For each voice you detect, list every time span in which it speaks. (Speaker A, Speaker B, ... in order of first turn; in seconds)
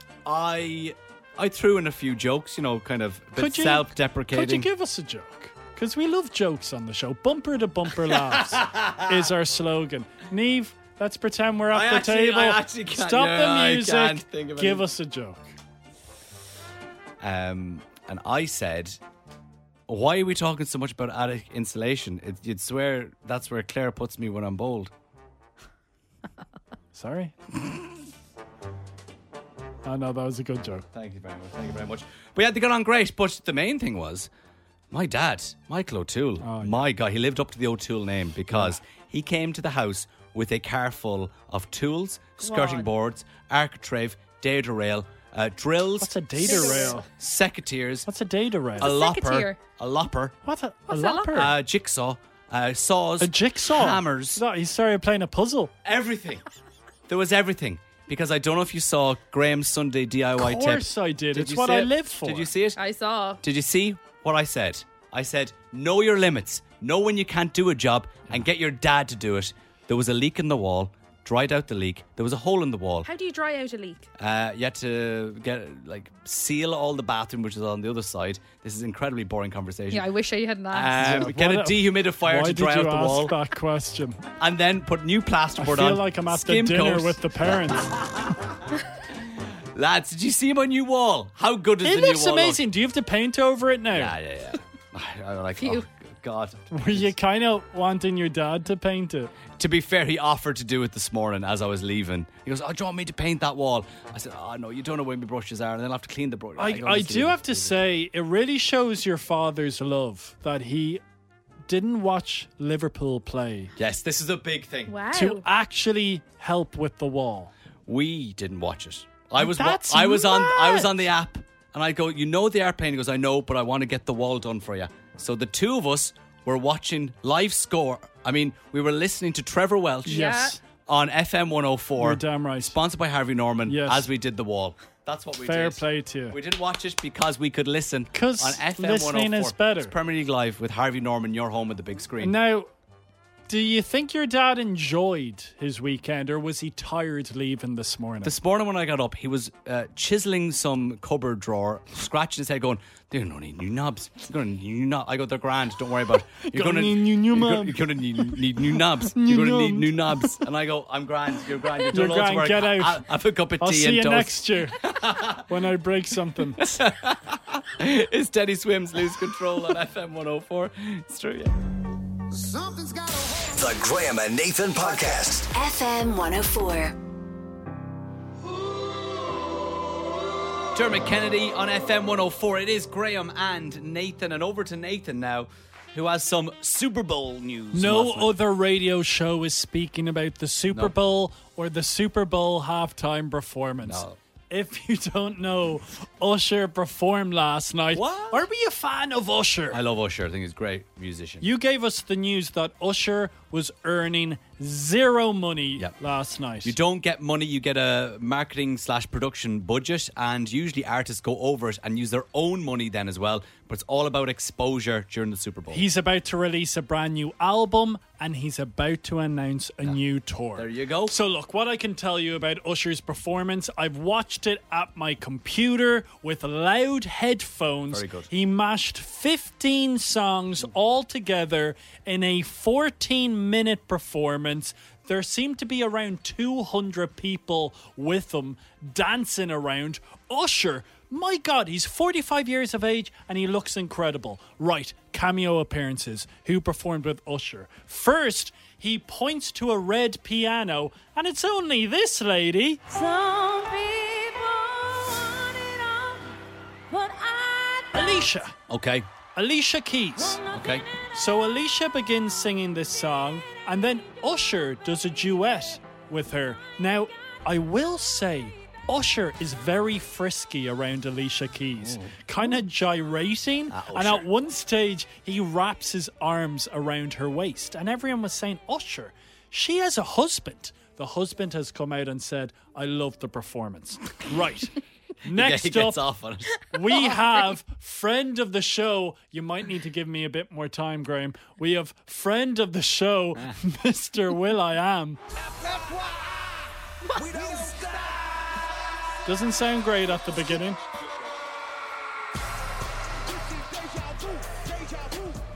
Speaker A: 0.2-4.7, 8.0-9.3, 11.7-14.8, 17.2-19.0, 19.9-24.9, 30.9-34.3, 34.9-48.1, 48.8-50.4, 51.3-54.4, 55.9-56.4, 57.1-62.8, 63.4-73.1, 74.2-80.1, 80.7-83.3, 84.4-88.8, 89.8-92.6, 93.9-97.1, 99.5-107.8, 113.8-115.0, 117.9-142.4, 148.2-165.4, 166.6-171.5, 180.7-188.3, 193.8-194.2, 197.9-198.4, 199.7-201.5, 206.6-215.8, 220.5-221.1, 227.9-228.3, 258.7-259.1, 260.5-260.9, 271.8-272.1, 273.7-274.2, 285.2-286.7
Speaker B: 3.4-15.4, 26.9-27.4, 29.9-30.9, 36.4-36.8, 38.5-38.8, 46.0-47.1, 48.1-48.9, 50.4-51.5, 53.2-55.7, 60.4-62.5, 80.9-84.2, 85.6-87.9, 91.8-94.2, 96.7-99.3, 106.6-111.0, 111.7-113.7, 115.1-117.5, 119.4-121.1, 130.1-130.6, 132.0-132.8, 133.7-134.1, 135.4-136.4, 138.1-139.9, 142.2-142.7, 143.5-148.3, 156.4-160.4, 161.9-163.0, 163.6-164.8, 165.5-166.6, 187.7-199.8, 201.4-206.8, 215.7-252.8, 257.9-258.5, 259.4-260.4, 261.1-286.0, 286.7-295.2, 299.2-300.8
Speaker C: 42.4-42.9, 46.4-47.0, 48.8-49.6, 50.9-51.3, 62.8-63.4, 73.0-74.1, 79.9-81.2, 95.6-95.8, 114.9-115.4, 130.1-130.5
Speaker D: 173.5-175.5
Speaker E: 175.5-176.9, 252.9-256.2, 257.0-257.9